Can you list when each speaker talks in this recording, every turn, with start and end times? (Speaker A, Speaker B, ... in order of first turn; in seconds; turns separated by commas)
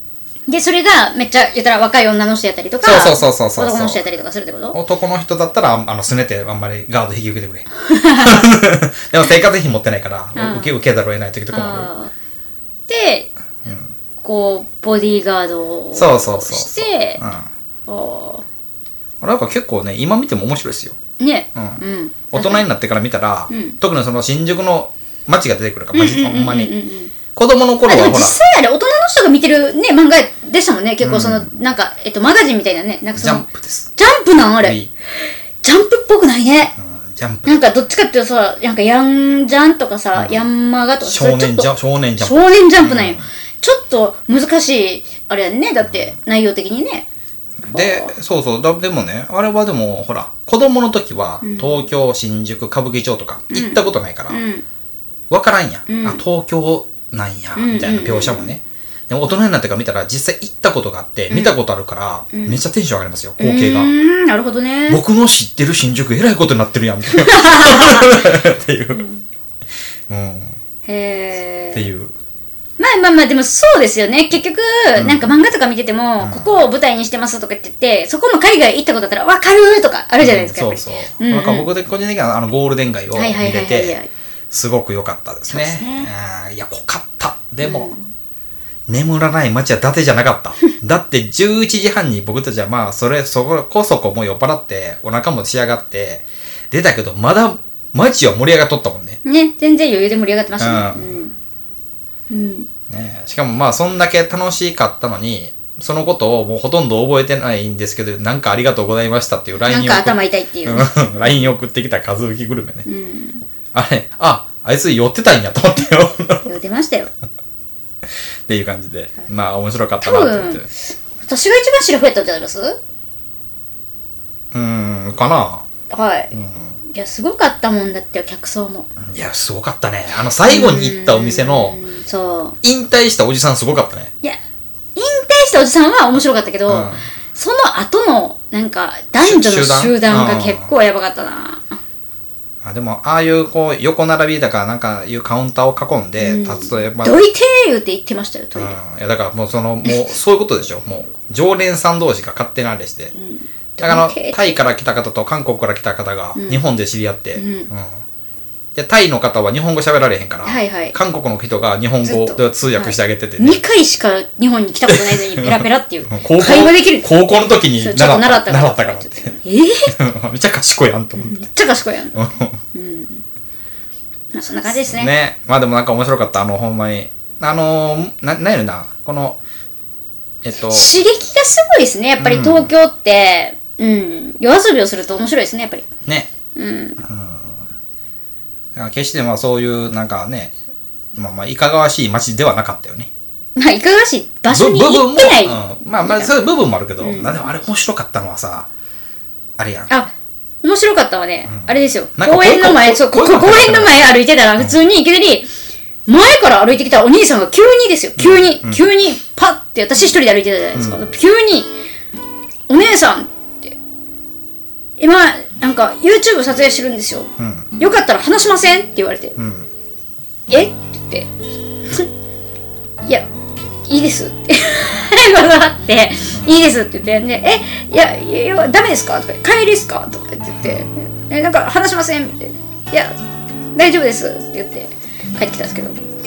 Speaker A: 0.5-4.8, Speaker B: 2.8-4.1, Speaker B: 4.7-11.9, Speaker A: 7.9-8.5, Speaker A: 10.4-10.7, Speaker A: 11.5-12.1, Speaker A: 12.9-13.3, Speaker B: 13.7-13.9, Speaker A: 14.2-17.2, Speaker B: 15.9-17.5, Speaker A: 17.9-18.4, Speaker B: 19.2-21.0, Speaker A: 21.2-22.7, Speaker B: 21.5-26.8, Speaker A: 23.5-23.8, Speaker A: 25.9-27.1, Speaker B: 27.3-28.4, Speaker A: 27.9-33.5, Speaker B: 31.0-31.5, Speaker B: 33.2-33.9, Speaker A: 34.0-34.8, Speaker B: 34.6-34.9, Speaker A: 35.6-36.8, Speaker B: 36.8-37.7, Speaker A: 37.5-47.0, Speaker B: 40.1-40.4, Speaker B: 41.0-43.2, Speaker B: 45.8-46.1, Speaker B: 47.6-54.4, Speaker A: 47.6-48.1, Speaker A: 51.4-51.8, Speaker A: 53.5-54.6, Speaker B: 55.3-63.9, Speaker A: 55.9-56.2, Speaker A: 57.5-58.5, Speaker A: 61.3-61.5, Speaker A: 62.3-62.6, Speaker A: 63.4-65.0, Speaker B: 64.9-69.0, Speaker A: 67.1-68.3, Speaker A: 68.9-69.2, Speaker B: 70.1-70.5, Speaker A: 70.9-71.8, Speaker B: 71.7-72.1, Speaker A: 72.8-81.7, Speaker B: 75.0-75.3, Speaker B: 76.2-76.6, Speaker B: 80.2-84.0, Speaker A: 83.1-84.1, Speaker B: 84.5-87.9, Speaker A: 85.5-86.1, Speaker A: 87.6-88.1, Speaker B: 88.9-99.2, Speaker A: 99.2-101.3, Speaker B: 100.6-101.1, Speaker A: 102.3-102.7, Speaker B: 102.9-112.9, Speaker A: 109.7-111.0, Speaker A: 112.8-113.4, Speaker B: 113.7-116.5, Speaker A: 116.5-117.1, Speaker B: 118.5-120.7, Speaker A: 120.0-122.8, Speaker B: 124.5-125.7, Speaker A: 125.9-126.3, Speaker B: 126.3-126.8, Speaker A: 126.9-128.9, Speaker B: 129.1-131.8, Speaker A: 130.5-132.6, Speaker B: 132.6-134.1, Speaker A: 135.0-141.8, Speaker B: 136.7-137.0, Speaker B: 139.2-140.7, Speaker B: 142.6-147.2, Speaker A: 146.2-148.8, Speaker B: 148.6-153.1, Speaker A: 149.9-150.1, Speaker A: 153.1-154.6, Speaker B: 153.8-158.0, Speaker A: 156.3-156.6, Speaker A: 157.3-157.7, Speaker B: 158.8-163.6, Speaker A: 160.4-161.0, Speaker A: 162.0-167.1, Speaker B: 164.9-169.3, Speaker A: 167.8-169.9, Speaker B: 169.9-171.4, Speaker A: 171.2-173.2, Speaker B: 172.1-172.6, Speaker A: 174.3-175.1, Speaker B: 174.8-179.4, Speaker B: 180.4-180.9, Speaker A: 180.6-185.8, Speaker B: 182.2-182.7, Speaker B: 186.1-186.3, Speaker A: 186.5-187.0, Speaker B: 187.0-187.6, Speaker B: 188.8-190.5, Speaker B: 191.1-193.1, Speaker A: 193.6-196.3, Speaker B: 194.5-198.7, Speaker A: 197.0-197.4, Speaker B: 199.6-199.9, Speaker A: 200.6-205.5, Speaker B: 201.5-204.1, Speaker A: 206.1-211.7, Speaker B: 208.2-208.8, Speaker B: 210.8-211.0, Speaker A: 212.7-213.7, Speaker A: 215.0-219.4, Speaker B: 217.4-217.7, Speaker B: 219.4-219.7, Speaker A: 220.5-221.3, Speaker A: 223.9-233.1, Speaker B: 230.6-230.9, Speaker A: 233.8-236.0